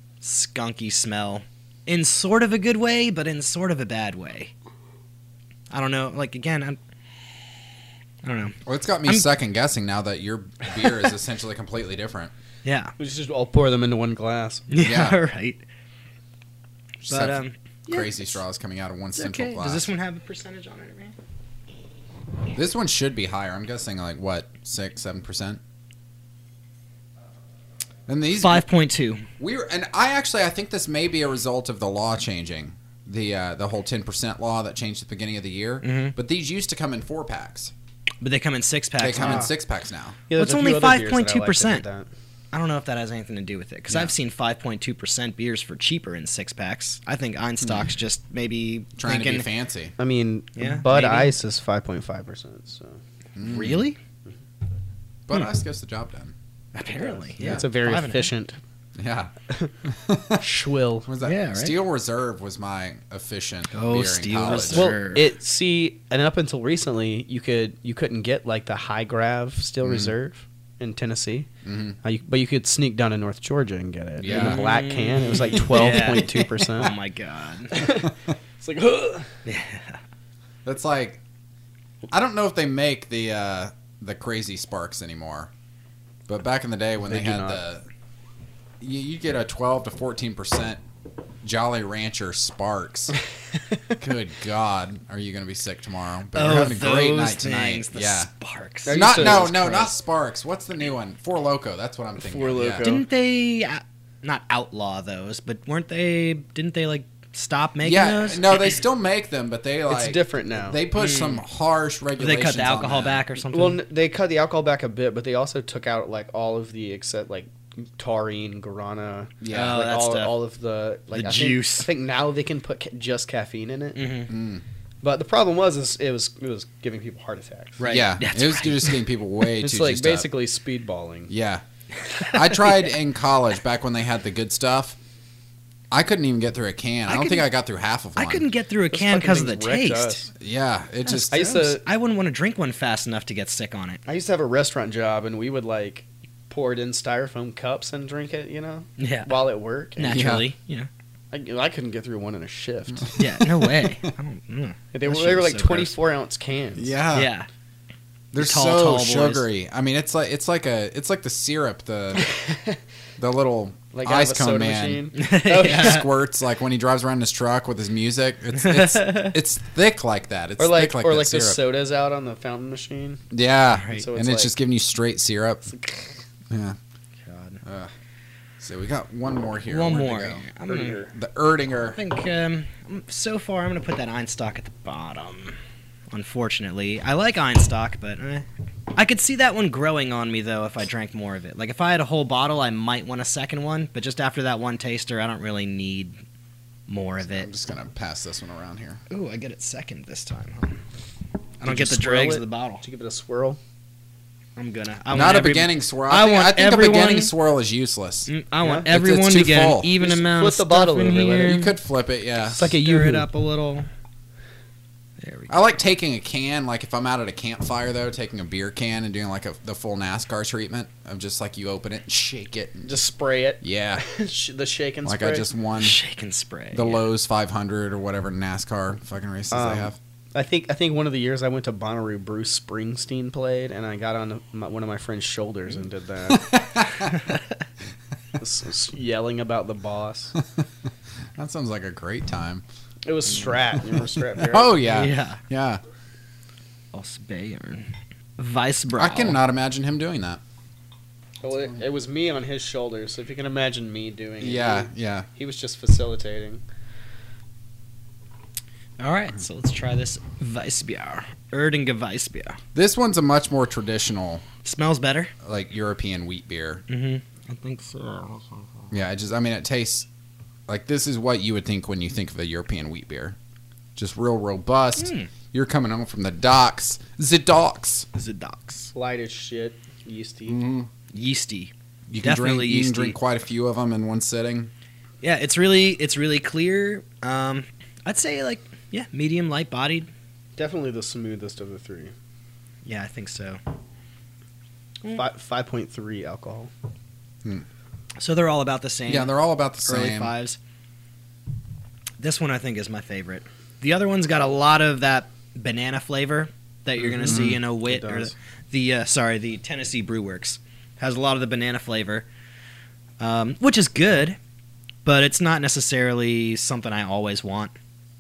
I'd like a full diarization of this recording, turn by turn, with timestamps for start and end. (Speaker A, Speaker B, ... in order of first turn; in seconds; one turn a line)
Speaker A: 0.2-4.5
Speaker A: 5.7-6.8
Speaker A: 8.2-9.3
Speaker B: 8.7-12.3
Speaker A: 12.7-12.9
Speaker C: 13.0-14.7
Speaker A: 14.7-15.6
Speaker B: 14.8-15.2
Speaker B: 17.0-19.9
Speaker A: 17.1-18.4
Speaker A: 19.1-21.1
Speaker B: 22.5-25.6
Speaker B: 28.1-28.6
Speaker A: 28.4-29.2
Speaker B: 29.4-37.7
Speaker A: 35.8-36.1
Speaker A: 38.2-39.5
Speaker B: 39.0-40.2
Speaker C: 39.2-39.5
Speaker C: 40.3-42.1
Speaker A: 40.4-41.8
Speaker A: 42.5-49.5
Speaker B: 43.9-44.1
Speaker B: 47.6-47.9
Speaker B: 49.0-49.9
Speaker C: 50.0-53.0
Speaker A: 50.6-51.3
Speaker B: 53.4-53.9
Speaker A: 53.4-54.0
Speaker B: 55.3-56.3
Speaker A: 56.8-58.3
Speaker C: 56.9-58.6
Speaker B: 59.0-59.3
Speaker B: 59.8-60.4
Speaker C: 60.4-61.1
Speaker B: 61.1-65.0
Speaker A: 61.2-61.8
Speaker A: 63.7-65.3
Speaker C: 64.7-71.5
Speaker B: 69.8-70.1
Speaker B: 71.7-72.0
Speaker C: 72.0-77.0
Speaker B: 74.2-74.6
Speaker A: 74.2-77.8
Speaker B: 75.8-76.6
Speaker C: 77.7-79.3
Speaker A: 79.5-80.0
Speaker B: 80.7-81.2
Speaker B: 82.1-85.5
Speaker B: 86.3-87.9
Speaker C: 87.1-87.6
Speaker B: 88.8-90.8
Speaker B: 91.4-93.2
Speaker B: 94.0-98.3
Speaker A: 96.3-99.5
Speaker C: 98.8-99.9
Speaker B: 98.9-102.9
Speaker C: 102.2-103.1
Speaker A: 102.8-108.8
Speaker B: 107.8-113.2
Speaker C: 109.9-110.8
Speaker A: 111.0-111.4
Speaker A: 112.2-113.8
Speaker C: 113.5-124.1
Speaker B: 119.4-119.8
Speaker A: 119.5-120.3
Speaker A: 121.1-121.9
Speaker A: 124.0-124.3
Speaker B: 124.3-124.6
Speaker C: 125.0-127.9
Speaker A: 127.8-129.0
Speaker B: 127.9-130.3
Speaker C: 129.6-131.3
Speaker B: 131.3-131.6
Speaker A: 132.2-132.9
Speaker B: 132.3-135.0
Speaker B: 135.9-138.4
Speaker A: 137.1-137.5
Speaker A: 138.2-140.3
Speaker C: 138.9-140.3
Speaker B: 140.4-141.5
Speaker A: 141.1-144.0
Speaker C: 141.3-141.8
Speaker C: 144.1-150.3
Speaker A: 149.0-149.3
Speaker A: 150.0-150.9
Speaker B: 150.1-150.4
Speaker C: 151.3-153.2
Speaker B: 153.0-153.9
Speaker A: 153.2-155.9
Speaker C: 154.9-157.0
Speaker B: 156.8-157.3
Speaker A: 157.1-157.5
Speaker B: 158.3-162.3
Speaker A: 158.4-159.4
Speaker C: 162.2-162.8
Speaker B: 163.2-165.1
Speaker C: 163.9-166.1
Speaker A: 165.2-166.1
Speaker B: 165.6-171.6
Speaker A: 168.6-169.4
Speaker C: 170.6-173.2
Speaker B: 173.3-175.7
Speaker A: 173.7-174.1
Speaker C: 173.9-174.5
Speaker C: 175.8-176.2
Speaker B: 176.5-176.8
Speaker A: 177.2-177.6
Speaker B: 177.6-177.9
Speaker B: 178.6-180.4
Speaker A: 179.7-181.0
Speaker C: 180.7-181.1
Speaker B: 181.1-182.0
Speaker A: 181.8-185.6
Speaker A: 186.1-196.2
Speaker A: 196.9-197.5
Speaker B: 197.2-199.0
Speaker A: 199.1-200.8
Speaker A: 201.6-202.8
Speaker C: 201.6-203.6
Speaker A: 204.6-207.3
Speaker B: 205.1-208.3
Speaker A: 208.3-211.7
Speaker B: 208.9-209.9
Speaker C: 210.0-211.6
Speaker B: 211.4-212.6
Speaker C: 212.6-213.3
Speaker A: 212.6-213.9
Speaker A: 215.2-215.6
Speaker B: 215.5-222.9
Speaker C: 222.9-225.5
Speaker B: 223.6-224.0
Speaker B: 225.1-226.0
Speaker A: 225.8-227.0
Speaker B: 226.7-230.0
Speaker C: 229.5-236.5
Speaker B: 236.3-237.2
Speaker A: 237.1-237.4
Speaker C: 238.4-240.3
Speaker B: 240.4-240.7
Speaker B: 241.4-242.6
Speaker C: 243.1-244.8
Speaker B: 244.5-245.8
Speaker A: 244.8-245.4
Speaker A: 246.9-249.4
Speaker B: 249.0-250.4
Speaker C: 251.4-256.6
Speaker B: 254.4-255.3
Speaker A: 259.0-262.6
Speaker B: 262.8-264.4
Speaker A: 264.6-265.3
Speaker B: 265.4-266.8
Speaker A: 266.9-268.9
Speaker B: 268.9-270.1
Speaker B: 270.7-273.4
Speaker B: 274.0-278.1
Speaker A: 275.0-275.3
Speaker A: 278.1-278.9
Speaker C: 278.9-280.6
Speaker B: 280.5-280.9
Speaker A: 281.1-283.2
Speaker B: 282.1-284.7
Speaker A: 285.2-290.1
Speaker C: 290.6-292.1
Speaker A: 292.9-293.6
Speaker C: 295.1-296.7
Speaker A: 298.2-300.6
Speaker B: 299.1-300.3
Speaker A: 302.2-312.3
Speaker C: 307.0-308.3
Speaker B: 307.2-307.6
Speaker A: 313.2-314.4
Speaker A: 315.1-317.7